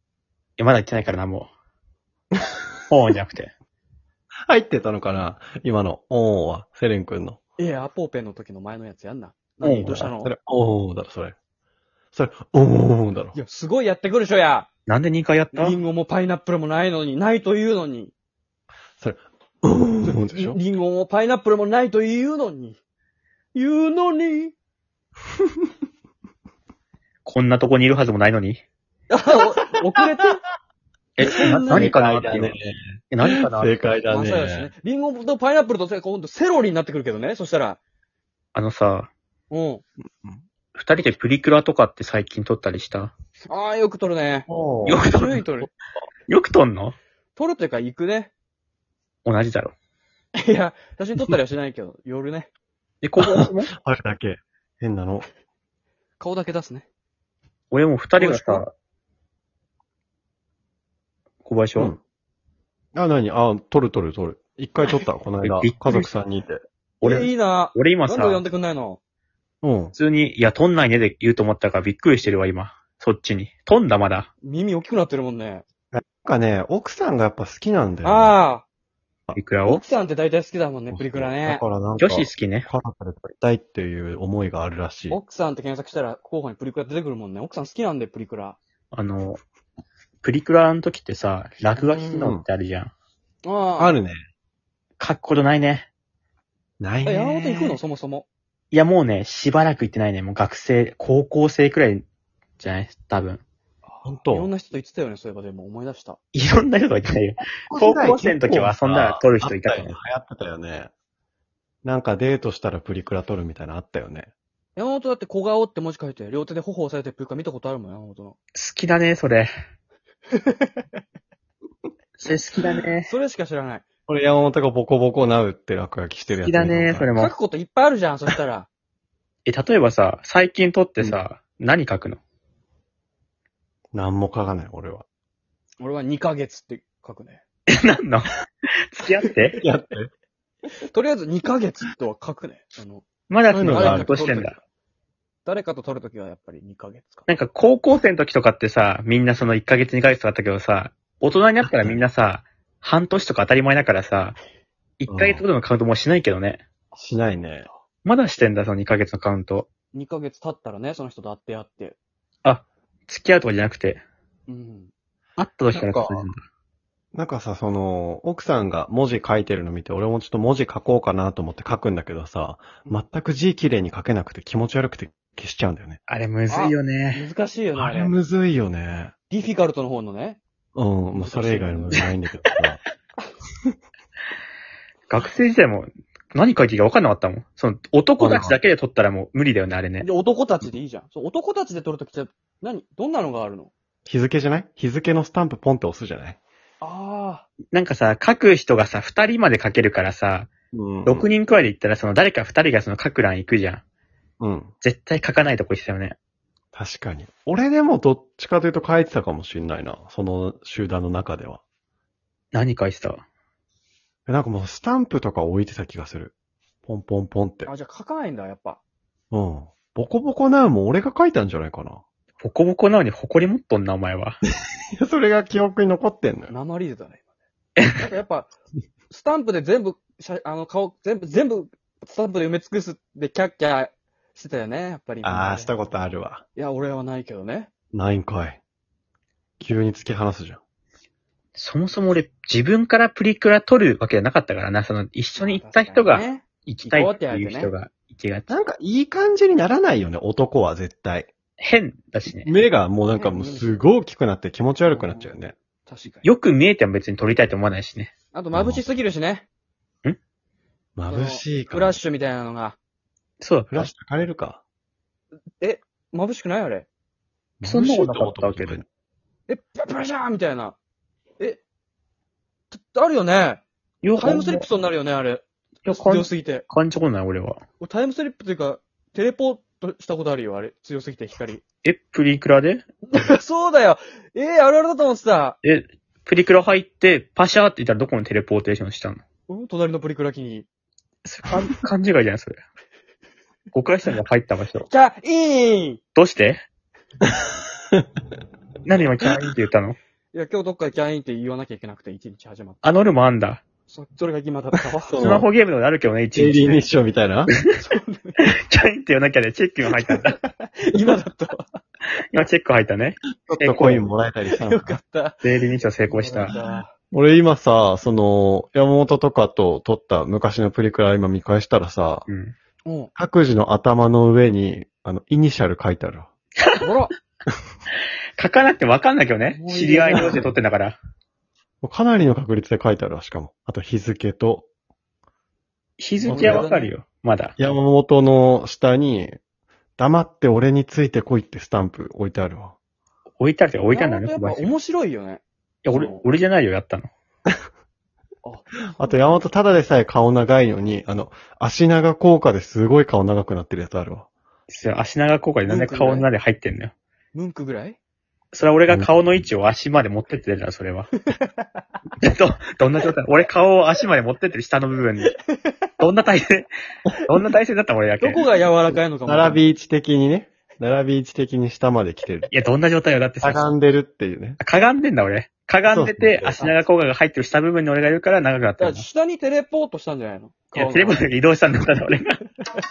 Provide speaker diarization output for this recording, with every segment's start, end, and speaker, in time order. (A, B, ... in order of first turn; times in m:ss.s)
0:00.6-0:01.5 A
0:02.9-0:03.5 A
0:04.5-0:07.4 B
0:07.6-0:10.3 C
0:09.6-0:10.0 A
0:09.8-0:11.4 B
0:12.1-0:13.4 B
0:13.3-0:14.7 C
0:14.9-0:15.8 A
0:15.5-0:18.1 C
0:19.0-0:20.6 B
0:20.3-0:22.8 C
0:23.5-0:24.5 C
0:27.2-0:28.6 A
0:29.1-0:30.4 C
0:31.2-0:32.5 A
0:31.2-0:31.9 C
0:31.4-0:34.7 B
0:33.1-0:33.8 A
0:34.1-0:37.8 C
0:38.5-0:39.1 A
0:39.5-0:39.8 C
0:40.1-0:40.4 B
0:40.7-0:43.1 A
0:43.5-0:44.5 C
0:44.5-0:45.1 B
0:44.8-0:45.4 A
0:45.0-0:45.7 C
0:46.3-0:47.0 A
0:47.4-0:48.3 C
0:49.2-0:49.7 A
0:50.4-0:52.5 C
0:53.0-0:53.7 A
0:53.2-0:55.2 B
0:56.2-0:56.8 C
0:57.7-0:58.7 A
0:58.2-0:58.6 C
1:01.4-1:01.9 A
1:02.9-1:06.6 B
1:05.4-1:06.1 A
1:07.0-1:08.4 A
1:07.0-1:09.0 C
1:09.6-1:09.9 B
1:09.9-1:14.3 A
1:14.4-1:15.6 C
1:15.9-1:18.3 B
1:18.0-1:18.6 C
1:19.3-1:19.8 A
1:19.6-1:21.6 C
1:20.9-1:25.2 B
1:22.0-1:22.7 A
1:25.1-1:28.6 C
1:28.9-1:29.4 A
1:30.2-1:32.9 A
1:31.9-1:32.4 B
1:33.4-1:34.0 C
1:33.8-1:34.2 B
1:35.0-1:35.9 A
1:36.8-1:37.8 B
1:37.0-1:38.3 C
1:38.7-1:42.0 A
1:42.6-1:43.4 A
1:43.8-1:46.2 C
1:44.0-1:44.5 B
1:46.3-1:49.9 A
1:47.7-1:50.9 B
1:51.8-1:54.3 B
1:54.8-1:58.4 C
1:58.5-1:59.5 A
2:00.3-2:00.8 C
2:02.2-2:03.1 A
2:03.0-2:03.8 C
2:04.1-2:07.1 B
2:06.4-2:07.3 A
2:07.2-2:08.7 C
2:09.4-2:12.2 A
2:13.9-2:15.0 B
2:15.8-2:17.4 C
2:17.7-2:18.3 A
2:18.9-2:19.6 A
2:19.6-2:20.1 B
2:20.9-2:23.1 C
2:23.3-2:24.6 A
2:23.5-2:24.2 B
2:23.6-2:24.6 C
2:25.4-2:27.3 C
2:27.3-2:34.4 A
2:31.6-2:32.0 B
2:35.0-2:36.6 A
2:35.1-2:35.4 B
2:37.0-2:37.7 B
2:38.0-2:39.7 A
2:39.9-2:42.0 C
2:42.4-2:44.0 A
2:44.5-2:44.9 C
2:45.4-2:46.4 A
2:45.7-2:46.2 C
2:47.1-2:56.0 B
2:56.1-2:57.3 A
2:56.5-2:58.1 C
2:57.7-2:59.1 B
2:59.3-3:00.4 C
3:00.7-3:02.8 B
3:01.1-3:02.0 C
3:05.1-3:10.1 A
3:08.2-3:08.6 B
3:10.0-3:13.7 C
3:14.0-3:16.4 B
3:16.8-3:17.5 C
3:17.7-3:20.5 A
3:20.7-3:21.3 B
3:21.0-3:23.8 A
3:24.4-3:24.7 B
3:24.8-3:26.1 A
3:26.7-3:31.6 B
3:32.5-3:33.2 A
3:34.3-3:36.3 B
3:36.8-3:37.7 B
3:37.6-3:38.8 C
3:39.3-3:42.0 B
3:42.4-3:44.4 A
3:45.0-3:46.5 B
3:46.5-3:47.2 C
3:47.9-3:48.5 C
3:49.1-3:55.7 C
3:55.2-3:56.4 B
3:56.6-3:57.7 C
3:57.9-3:58.6 B
3:59.6-4:00.6 B
4:01.6-4:08.5 A
4:05.4-4:07.7 C
4:08.5-4:11.3 B
4:11.6-4:12.5 A
4:12.4-4:15.5 B
4:13.2-4:13.8 C
4:14.9-4:15.3 C
4:15.8-4:16.3 C
4:16.2-4:18.1 A
4:18.3-4:19.5 C
4:18.5-4:18.8 B
4:21.0-4:22.0 B
4:21.1-4:22.8 C
4:23.4-4:23.9 A
4:23.7-4:24.6 B
4:25.6-4:26.9 C
4:27.6-4:28.8 B
4:27.6-4:28.8 A
4:29.5-4:30.8 C
4:32.7-4:33.6 C
4:34.0-4:34.6 A
4:34.2-4:36.6 C
4:35.8-4:37.6 A
4:37.8-4:41.6 C
4:41.8-4:42.8 A
4:43.1-4:45.6 C
4:45.6-4:49.2 A
4:49.5-4:50.7 C
4:51.2-4:52.6 A
4:53.7-4:54.9 A
4:54.9-4:56.0 C
4:56.2-4:56.6 A
4:58.8-5:00.0 A
5:00.3-5:02.8 C
5:02.8-5:03.6 A
5:03.9-5:05.3 C
5:05.0-5:05.5 B
5:05.2-5:06.8 A
5:06.3-5:07.5 B
5:07.8-5:08.3 C
5:08.4-5:10.4 A
5:10.2-5:11.8 C
5:12.3-5:14.1 A
5:13.4-5:15.0 B
5:14.5-5:15.5 C
5:15.4-5:16.5 A
5:16.0-5:16.9 C
5:16.5-5:22.3 B
5:22.3-5:22.5 A
5:22.8-5:23.1 C
5:23.1-5:26.3 B
5:26.8-5:27.1 C
5:28.4-5:31.0 A
5:29.5-5:30.5 C
5:30.1-5:30.5 B
5:31.8-5:34.7 B
5:36.0-5:37.5 A
5:36.2-5:36.9 C
5:36.3-5:36.7 B
5:37.6-5:39.4 B
5:40.0-5:42.8 B
5:43.4-5:44.7 A
5:43.9-5:46.2 C
5:45.8-5:47.1 A
5:48.4-5:49.4 C
5:48.9-5:54.3 B
5:54.7-5:56.9 A
5:55.6-5:56.3 C
5:57.3-5:58.0 C
5:58.5-6:01.1 A
6:01.4-6:01.8 C
6:02.2-6:05.3 A
6:06.0-6:06.7 A
6:07.2-6:08.4 A
6:08.2-6:09.6 C
6:09.2-6:12.5 B
6:12.5-6:13.7 A
6:13.4-6:14.6 B
6:14.6-6:19.0 A
6:15.9-6:16.6 B
6:18.8-6:21.2 C
6:20.7-6:22.3 A